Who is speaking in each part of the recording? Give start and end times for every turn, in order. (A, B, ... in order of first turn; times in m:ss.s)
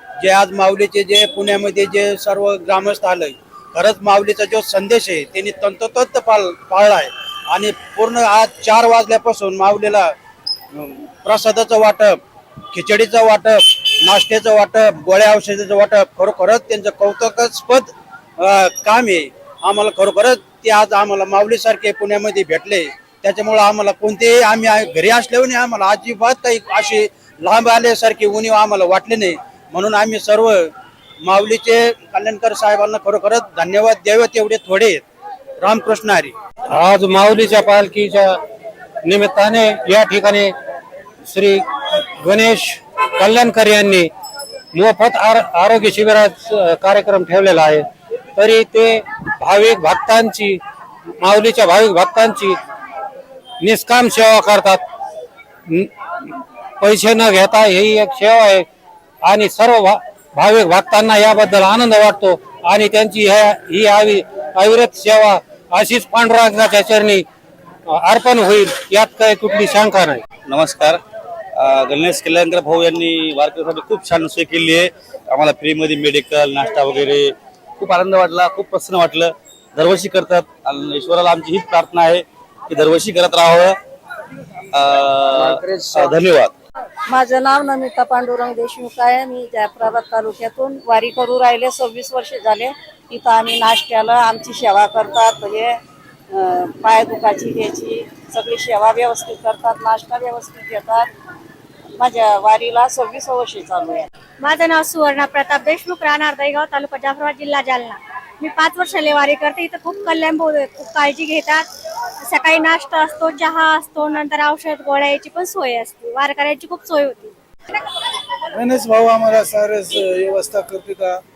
0:00.2-0:10.1 A
0:10.7-0:12.2 A
0:12.7-0:30.7 A
0:31.2-0:35.0 A
0:35.6-0:36.3 A
0:36.7-0:38.3 B
0:39.1-0:40.5 B
0:41.3-0:41.6 B
0:42.2-0:44.1 B
0:44.7-0:47.8 B
0:48.4-0:50.6 B
0:51.2-0:52.6 B
0:53.6-0:54.8 B
0:56.8-0:58.6 B
0:59.2-1:07.2 B
1:07.9-1:10.2 B
1:10.5-1:11.0 C
1:11.6-1:23.8 C
1:24.7-1:26.5 C
1:27.1-1:35.7 D
1:36.4-1:40.9 D
1:42.1-1:44.0 D
1:44.4-1:51.6 E
1:52.2-1:57.3 E
1:58.5-2:01.2 F